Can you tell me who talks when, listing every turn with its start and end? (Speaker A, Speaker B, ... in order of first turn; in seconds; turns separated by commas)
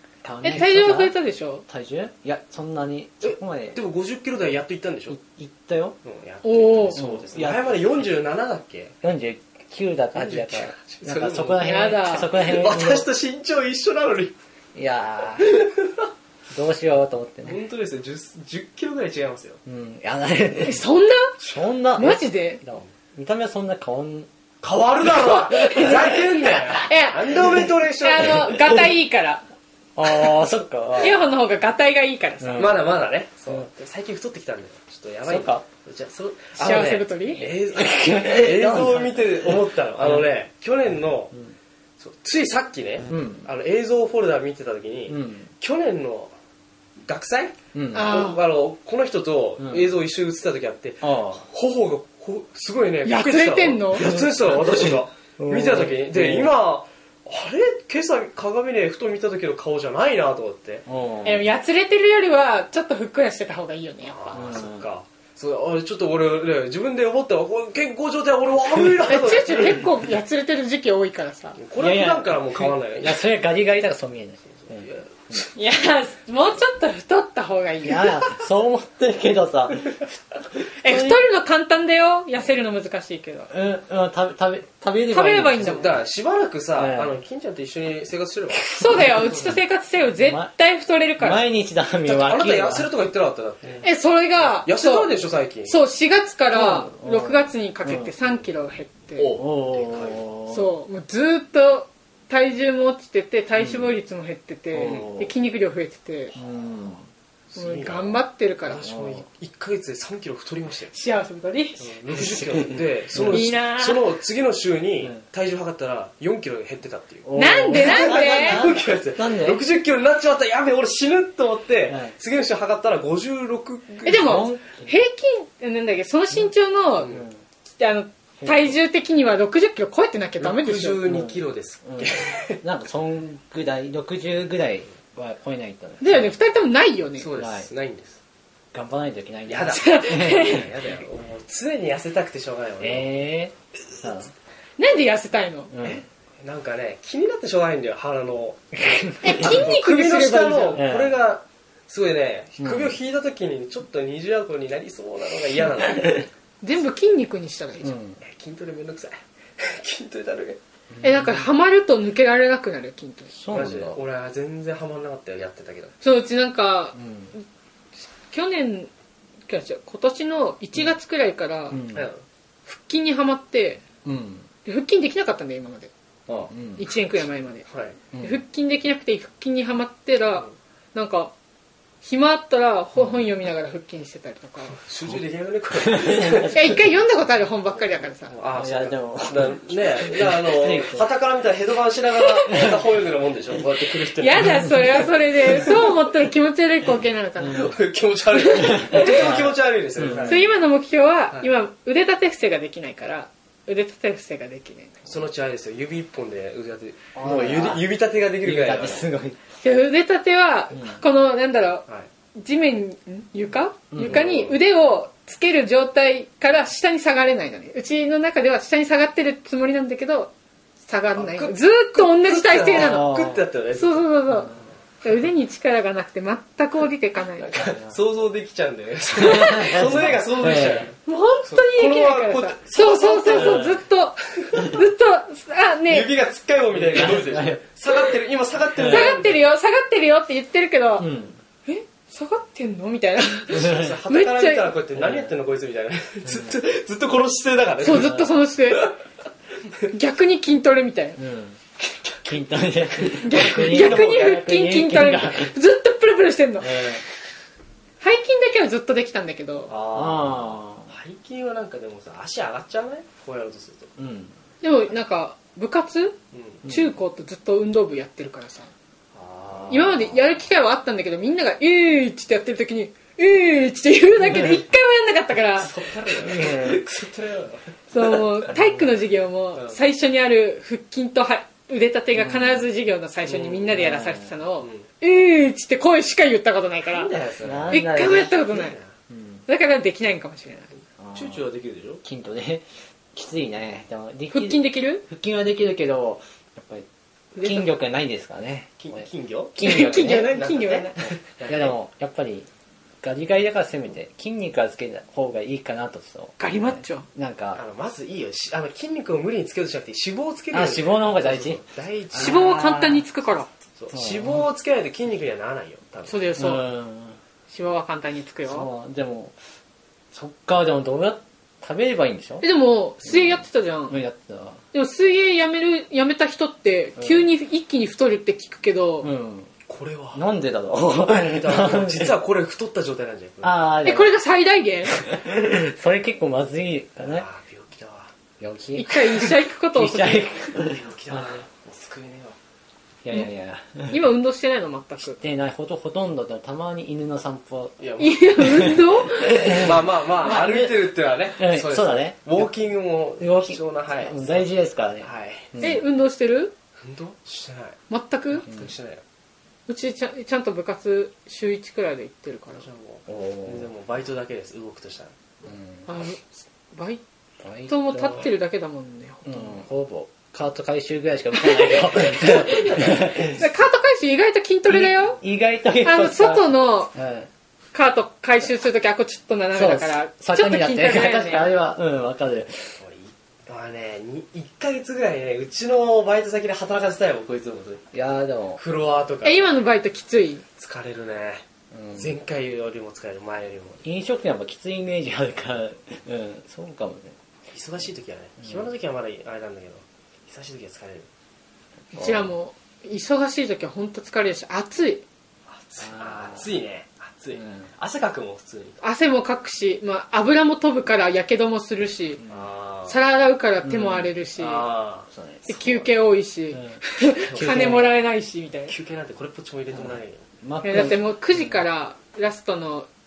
Speaker A: 0.2-1.1, Speaker B: 0.4-1.6, Speaker A: 1.7-3.8, Speaker C: 3.2-5.2, Speaker A: 5.1-6.0, Speaker C: 6.0-8.9, Speaker B: 6.4-7.0, Speaker A: 6.9-7.8, Speaker A: 9.0-13.1, Speaker C: 10.1-14.3, Speaker B: 11.6-12.3, Speaker A: 14.7-15.5, Speaker C: 15.5-16.0, Speaker A: 16.5-17.6, Speaker C: 17.4-19.6, Speaker A: 19.6-20.8, Speaker B: 20.6-21.3, Speaker A: 21.4-24.3, Speaker B: 22.0-22.6, Speaker C: 24.6-28.8, Speaker B: 25.2-29.4, Speaker A: 29.9-31.2, Speaker B: 31.0-32.7, Speaker A: 32.4-32.8, Speaker C: 32.5-41.4, Speaker A: 35.2-35.6, Speaker B: 36.5-37.5, Speaker A: 37.7-40.3, Speaker C: 42.0-46.3, Speaker A: 43.1-43.5, Speaker A: 45.1-45.5, Speaker C: 47.0-60.9, Speaker A: 47.7-48.1, Speaker B: 47.9-48.4, Speaker A: 49.6-49.9, Speaker A: 51.0-51.4, Speaker B: 53.0-54.1, Speaker A: 54.0-56.5, Speaker A: 60.9-61.5, Speaker B: 61.2-64.3, Speaker C: 64.0-69.8, Speaker A: 64.3-64.8, Speaker B: 69.0-71.6, Speaker C: 71.5-73.2, Speaker A: 71.8-75.4, Speaker C: 74.6-75.5, Speaker B: 75.5-78.2, Speaker A: 77.8-80.1, Speaker B: 80.8-83.5, Speaker A: 80.8-81.2, Speaker A: 83.5-86.0, Speaker B: 85.1-86.0, Speaker C: 85.6-89.5, Speaker A: 86.8-87.1, Speaker B: 88.7-91.4, Speaker A: 88.9-89.5, Speaker A: 90.2-90.5, Speaker A: 91.2-92.9, Speaker C: 92.0-93.9, Speaker B: 93.8-99.4, Speaker C: 94.5-95.8, Speaker A: 96.5-98.1, Speaker C: 99.2-100.2, Speaker A: 99.3-100.7, Speaker B: 100.5-106.3, Speaker A: 103.5-103.9, Speaker A: 104.7-105.3, Speaker C: 104.8-105.2, Speaker A: 106.3-107.0, Speaker C: 107.5-110.9, Speaker B: 107.5-108.8, Speaker A: 108.8-109.2, Speaker B: 110.9-111.8, Speaker C: 111.8-124.4, Speaker A: 112.3-112.6, Speaker A: 113.1-113.4, Speaker B: 113.3-114.0, Speaker A: 117.2-119.6, Speaker B: 117.3-118.6, Speaker A: 121.9-122.1, Speaker A: 124.0-124.9, Speaker B: 124.0-127.2, Speaker C: 127.0-127.3, Speaker A: 127.0-127.4, Speaker B: 127.8-131.0, Speaker A: 128.4-128.7, Speaker C: 130.4-132.6, Speaker A: 131.1-136.3, Speaker B: 136.0-137.3, Speaker C: 137.2-138.2, Speaker A: 137.3-137.7, Speaker A: 138.7-140.7, Speaker C: 139.5-143.1, Speaker B: 139.7-140.6, Speaker A: 142.8-144.3, Speaker B: 144.8-145.7, Speaker A: 145.7-146.0, Speaker C: 145.8-156.3, Speaker A: 148.8-149.7, Speaker B: 149.2-150.8, Speaker A: 150.8-151.2, Speaker A: 152.6-152.9, Speaker B: 156.6-157.9, Speaker A: 157.8-158.2, Speaker C: 158.2-160.6, Speaker A: 160.9-161.5, Speaker B: 161.0-163.3, Speaker A: 163.3-164.0, Speaker C: 163.5-165.9, Speaker B: 166.0-167.4, Speaker A: 166.9-167.3, Speaker B: 168.2-168.9, Speaker B: 169.5-171.8, Speaker A: 171.7-172.1, Speaker C: 171.9-172.2, Speaker B: 172.7-173.8, Speaker A: 174.0-174.5, Speaker B: 174.6-175.9, Speaker A: 176.5-176.8, Speaker B: 176.8-177.7, Speaker C: 177.7-178.1, Speaker A: 178.1-178.4, Speaker B: 178.2-181.3, Speaker B: 182.0-184.8, Speaker C: 184.8-186.8, Speaker A: 185.9-186.7, Speaker B: 186.5-188.3, Speaker C: 188.3-195.8, Speaker A: 188.5-191.1, Speaker A: 192.5-192.7, Speaker B: 194.2-197.7, Speaker A: 197.4-197.7, Speaker C: 197.4-200.6, Speaker B: 198.3-199.0, Speaker A: 198.6-200.4, Speaker B: 200.2-205.1, Speaker C: 205.1-209.1, Speaker A: 207.1-207.8, Speaker A: 208.4-209.4, Speaker B: 209.6-211.8, Speaker A: 210.7-211.0, Speaker B: 212.3-220.3, Speaker A: 213.9-214.3, Speaker C: 214.0-214.6, Speaker B: 220.8-223.1, Speaker C: 221.1-224.1, Speaker A: 222.5-223.4, Speaker B: 223.7-227.5, Speaker C: 227.4-233.7, Speaker A: 227.7-227.9, Speaker A: 229.2-230.9, Speaker B: 229.3-229.7, Speaker B: 231.0-236.1, Speaker A: 233.2-233.8, Speaker C: 235.9-239.4, Speaker A: 236.7-237.6, Speaker A: 238.7-239.2, Speaker B: 238.8-241.1, Speaker A: 241.0-241.4, Speaker B: 241.7-244.7, Speaker C: 243.5-248.9, Speaker A: 243.5-244.0, Speaker A: 245.0-245.3, Speaker A: 246.2-246.5, Speaker B: 247.8-248.9, Speaker A: 247.9-248.3, Speaker B: 249.9-251.2, Speaker A: 251.2-251.6, Speaker A: 252.2-255.5, Speaker B: 253.2-256.9, Speaker C: 253.3-254.2, Speaker A: 256.6-257.0, Speaker B: 258.0-259.7, Speaker C: 259.7-263.9, Speaker A: 259.7-260.9, Speaker A: 264.0-264.3, Speaker B: 264.6-268.7, Speaker C: 266.3-266.6, Speaker A: 266.6-266.9, Speaker C: 269.1-270.1, Speaker A: 269.6-270.1, Speaker B: 269.7-275.7, Speaker A: 274.2-274.6, Speaker C: 275.6-278.7, Speaker A: 276.0-276.8, Speaker B: 277.9-287.1, Speaker C: 279.5-279.8, Speaker A: 282.1-282.7, Speaker C: 283.3-283.6, Speaker A: 283.3-284.4, Speaker C: 284.6-284.9, Speaker C: 286.8-288.9, Speaker A: 287.4-288.4, Speaker B: 287.7-288.8, Speaker A: 289.1-289.4, Speaker B: 289.5-290.7, Speaker A: 291.0-291.4, Speaker C: 291.1-292.0, Speaker A: 292.0-296.9, Speaker B: 294.3-295.0, Speaker B: 297.3-297.7, Speaker A: 297.4-300.3, Speaker C: 298.8-301.7, Speaker B: 299.6-301.0, Speaker A: 301.4-302.5, Speaker A: 303.0-307.6, Speaker B: 306.4-307.1, Speaker C: 307.5-312.8, Speaker A: 310.5-313.0, Speaker B: 312.1-313.5, Speaker C: 313.8-316.2, Speaker A: 313.9-314.4, Speaker B: 316.1-316.6, Speaker A: 316.4-317.2, Speaker B: 317.5-318.7, Speaker A: 318.4-319.4, Speaker A: 320.1-322.5, Speaker B: 322.4-324.0, Speaker A: 323.0-324.6, Speaker B: 324.7-329.1, Speaker A: 327.0-327.3, Speaker A: 329.0-329.5, Speaker C: 329.7-330.2, Speaker A: 330.1-332.1, Speaker C: 331.2-333.7, Speaker A: 333.4-334.1, Speaker B: 333.8-335.1, Speaker A: 334.9-337.2, Speaker C: 337.0-338.1, Speaker A: 338.4-341.4, Speaker B: 338.8-340.3, Speaker C: 340.6-342.4, Speaker A: 343.0-344.1, Speaker B: 343.9-345.2, Speaker A: 345.0-347.8, Speaker C: 347.8-348.3, Speaker B: 348.0-349.7, Speaker A: 348.4-352.5, Speaker C: 349.6-354.5, Speaker A: 353.2-355.8, Speaker C: 355.0-355.8, Speaker B: 355.6-356.5, Speaker C: 356.8-359.0, Speaker B: 357.9-358.5, Speaker B: 359.7-362.7, Speaker C: 362.6-365.1, Speaker A: 363.1-363.7, Speaker A: 365.4-365.9, Speaker B: 365.9-367.0, Speaker A: 367.4-368.3, Speaker B: 367.7-369.6, Speaker A: 369.2-373.4, Speaker B: 371.3-375.2, Speaker A: 374.7-377.3, Speaker B: 375.8-376.9, Speaker B: 377.7-381.5, Speaker A: 379.5-382.7, Speaker C: 382.8-387.9, Speaker A: 387.9-388.6, Speaker C: 388.6-389.6, Speaker B: 389.2-390.4, Speaker C: 390.6-391.4, Speaker A: 391.7-392.1, Speaker C: 391.9-393.8, Speaker A: 393.8-397.1, Speaker C: 397.5-401.1, Speaker B: 401.9-405.0, Speaker A: 401.9-402.3, Speaker C: 405.5-408.8, Speaker A: 405.8-406.5, Speaker A: 407.3-407.7, Speaker B: 408.8-412.2, Speaker A: 412.2-412.4, Speaker C: 412.3-413.0, Speaker B: 412.9-414.7, Speaker A: 413.6-414.2, Speaker C: 414.4-415.1, Speaker A: 415.1-415.9, Speaker B: 415.5-418.8, Speaker A: 416.5-416.8, Speaker C: 417.2-417.9, Speaker A: 417.3-417.9, Speaker C: 418.7-420.2, Speaker A: 419.7-421.6, Speaker B: 420.6-422.9